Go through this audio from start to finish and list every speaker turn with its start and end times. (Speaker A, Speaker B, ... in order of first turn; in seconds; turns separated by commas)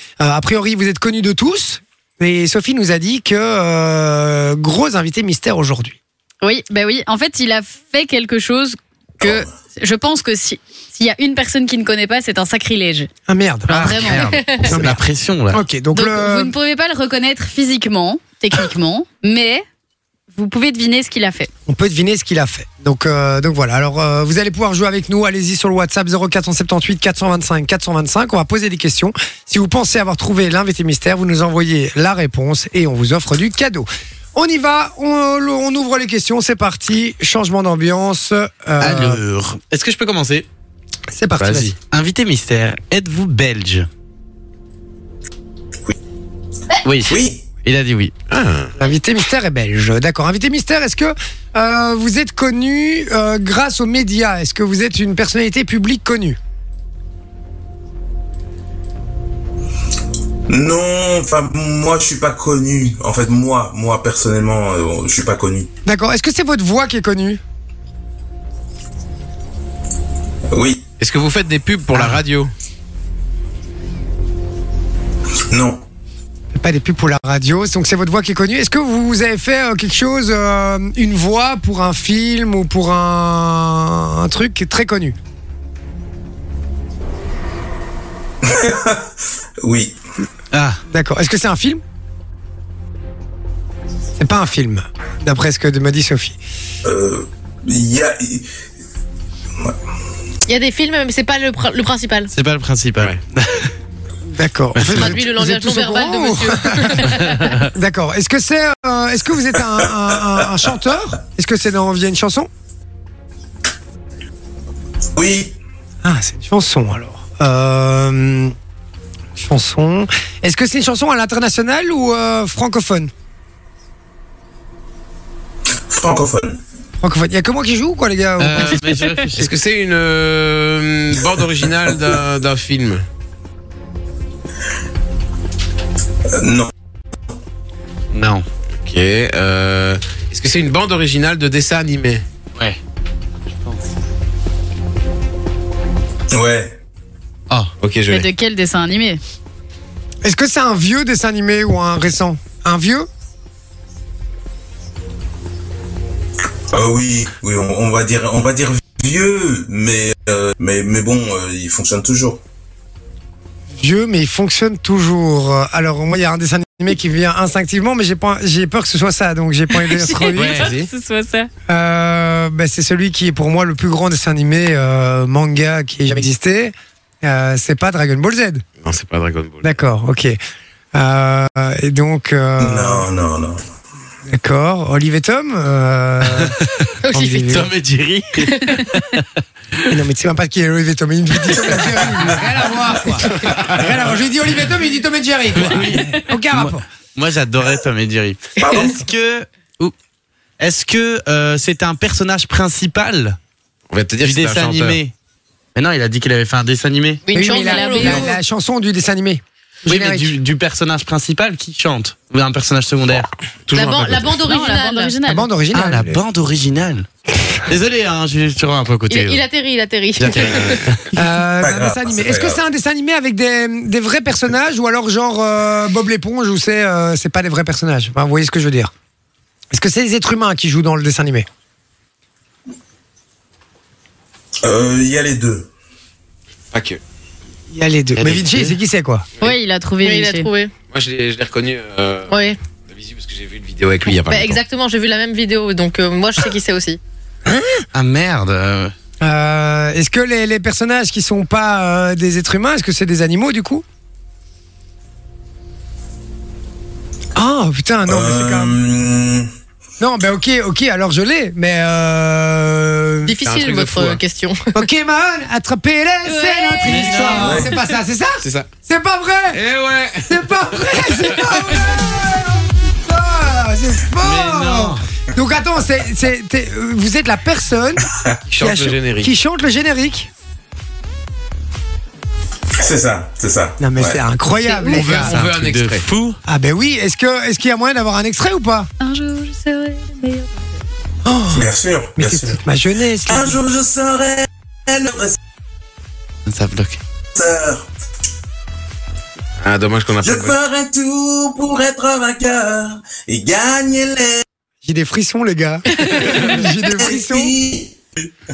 Speaker A: 0.2-6.0, Speaker B: 6.4-13.1, Speaker C: 9.2-9.5, Speaker A: 13.3-16.5, Speaker B: 13.7-14.3, Speaker D: 13.7-15.6, Speaker B: 15.9-19.6, Speaker B: 20.3-21.5, Speaker A: 21.7-39.2, Speaker D: 38.8-40.5, Speaker A: 41.1-41.7, Speaker D: 41.4-43.9, Speaker D: 46.9-48.1, Speaker C: 47.1-47.5, Speaker E: 48.3-48.7, Speaker A: 48.8-56.4, Speaker C: 60.5-65.7, Speaker A: 65.9-67.4, Speaker C: 70.5-70.8, Speaker E: 71.0-72.5, Speaker C: 75.5-75.8, Speaker A: 76.5-85.2, Speaker C: 88.4-90.0, Speaker D: 90.5-90.8, Speaker A: 90.9-91.8, Speaker A: 94.2-96.4, Speaker C: 96.8-98.5, Speaker F: 100.5-102.3, Speaker D: 102.3-103.7, Speaker A: 104.3-107.2, Speaker D: 104.8-105.1, Speaker F: 104.9-107.5, Speaker D: 107.3-107.7, Speaker A: 107.7-112.5, Speaker C: 115.2-115.6, Speaker A: 116.0-118.5, Speaker A: 119.4-123.1, Speaker C: 125.9-126.6, Speaker A: 127.0-128.8, Speaker D: 128.4-129.5, Speaker E: 129.4-133.0, Speaker C: 136.3-136.7, Speaker D: 138.1-138.4, Speaker E: 138.8-142.2, Speaker D: 143.5-143.8, Speaker C: 146.3-146.8, Speaker E: 147.8-148.3, Speaker B: 148.1-149.2, Speaker A: 150.2-153.1, Speaker C: 156.7-162.4, Speaker A: 163.8-170.7, Speaker B: 169.7-171.5, Speaker D: 170.3-170.7, Speaker A: 171.7-178.6, Speaker E: 178.8-179.6, Speaker A: 179.6-180.4, Speaker A: 180.9-183.1, Speaker C: 182.6-183.6, Speaker A: 184.3-186.6, Speaker F: 187.0-187.6, Speaker A: 187.1-187.7, Speaker D: 187.5-189.2, Speaker F: 188.5-188.8, Speaker A: 189.9-196.8, Speaker D: 195.5-199.9, Speaker C: 198.6-199.0, Speaker D: 200.6-203.4, Speaker E: 203.9-205.0, Speaker D: 204.2-205.1, Speaker D: 205.8-207.2, Speaker F: 207.3-208.4, Speaker A: 207.3-210.3, Speaker B: 207.4-208.3, Speaker D: 209.9-213.3, Speaker E: 213.7-214.4, Speaker F: 213.7-215.2, Speaker B: 214.4-215.5, Speaker A: 215.3-216.2, Speaker D: 215.7-217.1, Speaker D: 217.7-219.4, Speaker F: 219.1-220.8, Speaker D: 220.2-221.1, Speaker A: 221.1-228.9, Speaker C: 221.6-222.6, Speaker A: 229.7-231.5, Speaker C: 234.6-235.7, Speaker E: 236.7-237.0, Speaker A: 237.7-239.3, Speaker D: 238.2-238.8, Speaker B: 239.4-240.5, Speaker F: 240.0-240.7, Speaker E: 240.9-242.3, Speaker F: 242.3-242.6, Speaker E: 242.9-244.6, Speaker F: 244.1-247.0, Speaker A: 247.5-247.8, Speaker D: 247.9-248.9, Speaker A: 249.2-253.8, Speaker A: 257.4-258.8, Speaker C: 258.1-259.5, Speaker A: 260.0-263.4, Speaker F: 263.3-264.7, Speaker E: 263.4-264.2, Speaker A: 264.7-269.6, Speaker B: 266.3-267.5, Speaker D: 266.9-267.6, Speaker C: 267.4-267.7, Speaker E: 268.4-268.7, Speaker E: 269.5-271.7, Speaker A: 270.3-278.1, Speaker D: 274.2-275.0, Speaker E: 278.5-279.3, Speaker A: 278.6-280.3, Speaker C: 282.8-284.2, Speaker A: 283.8-285.4, Speaker B: 284.6-285.0, Speaker D: 284.9-286.4, Speaker E: 284.9-286.1, Speaker A: 286.5-288.9, Speaker B: 289.0-290.7, Speaker A: 291.2-293.6, Speaker C: 291.5-292.6, Speaker C: 293.3-295.4, Speaker D: 296.5-297.0, Speaker C: 297.4-297.9, Speaker E: 299.6-300.6, Speaker C: 300.2-304.4, Speaker A: 304.8-307.6, Speaker F: 306.0-306.5, Speaker C: 306.9-308.3